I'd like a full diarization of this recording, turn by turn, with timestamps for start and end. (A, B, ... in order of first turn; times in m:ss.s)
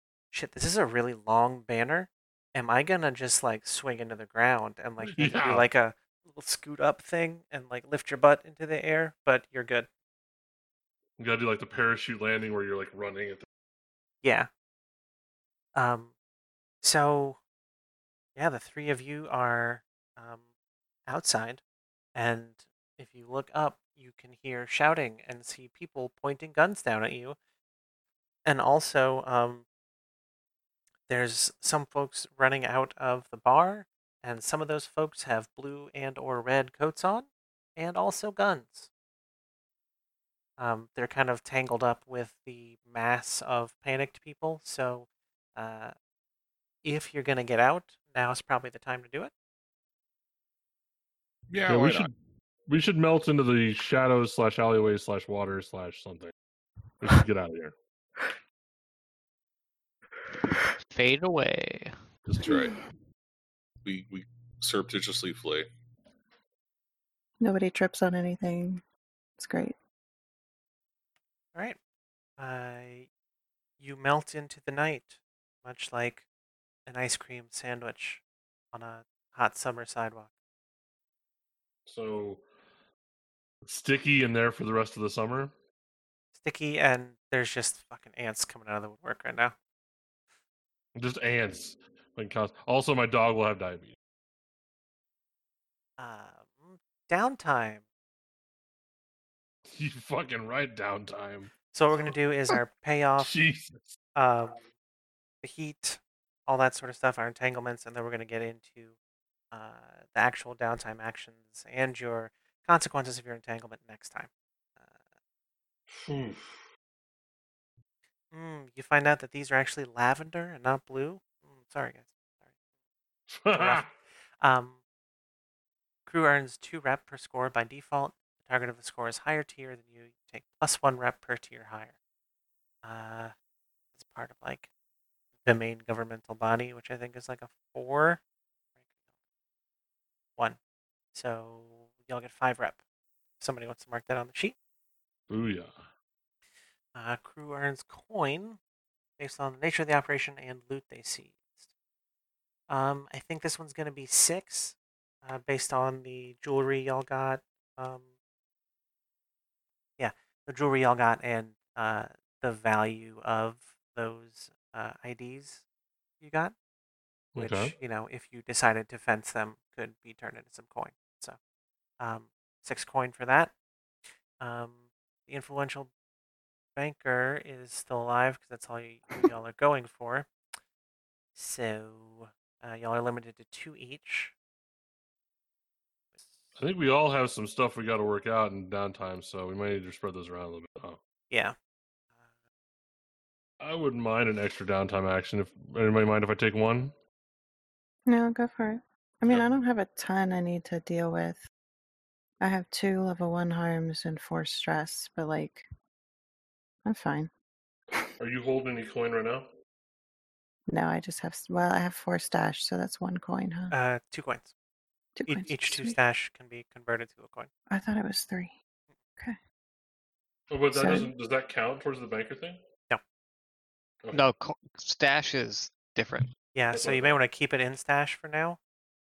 0:00.3-0:09.9 A
0:05.0-0:05.6 B
0:11.2-0:13.4 B
0:14.2-0:14.5 A
0:15.7-0:16.1 A
0:16.8-0:17.4 A
0:18.4-0:20.4 A
0:21.1-0:21.6 A
0:22.1-0:27.4 A
0:28.4-0:29.6 A
0:31.1-0:38.9 A
0:40.6-0:45.9 A
0:46.8-0:49.3 A
0:51.5-0:52.1 C
0:51.7-0:52.1 B
0:52.7-0:56.3 B
0:57.0-0:57.7 B
1:00.9-1:01.9 D
1:02.3-1:02.5 B
1:02.4-1:02.7 C
1:02.4-1:02.7 E
1:03.8-1:05.7 C
1:07.4-1:08.8 E
1:09.4-1:09.8 E
1:12.4-1:13.1 A
1:13.8-1:16.2 A
1:16.8-1:18.2 A
1:18.7-1:20.3 A
1:21.8-1:22.4 B
1:23.6-1:25.5 B
1:26.4-1:29.5 A
1:31.0-1:34.0 B
1:36.0-1:37.8 A
1:39.7-1:41.5 B
1:41.7-1:43.3 A
1:43.2-1:44.0 B
1:44.1-1:44.6 A
1:45.4-1:48.9 A
1:49.5-1:54.3 A
1:55.9-1:56.7 B
1:58.3-2:02.1 A
2:03.3-2:03.9 B
2:03.5-2:03.9 A
2:04.4-2:04.8 A
2:06.0-2:11.9 A
2:12.8-2:13.3 A
2:14.0-2:14.7 A
2:15.4-2:18.2 A
2:21.1-2:22.8 A
2:23.4-2:24.6 A
2:25.3-2:25.8 B
2:26.9-2:28.6 A
2:29.2-2:31.7 A
2:32.7-2:38.1 A
2:40.0-2:45.6 A
2:46.2-2:46.5 A
2:47.3-2:47.7 B
2:47.4-2:51.4 A
2:52.0-2:53.5 A
2:54.4-2:55.9 A
2:56.8-3:00.3 A
3:01.3-3:04.3 A
3:06.6-3:11.0 B
3:11.3-3:11.5 A
3:13.6-3:16.9 B
3:18.1-3:21.5 E
3:22.4-3:25.7 E
3:26.8-3:27.3 E
3:28.2-3:29.5 B
3:30.7-3:33.7 E
3:33.7-3:34.5 A
3:35.2-3:36.0 E
3:35.3-3:37.5 A
3:37.7-3:38.5 E
3:40.5-3:42.6 B
3:40.7-3:41.1 E
3:44.1-3:46.3 D
3:46.5-3:48.6 A
3:46.7-3:47.2 B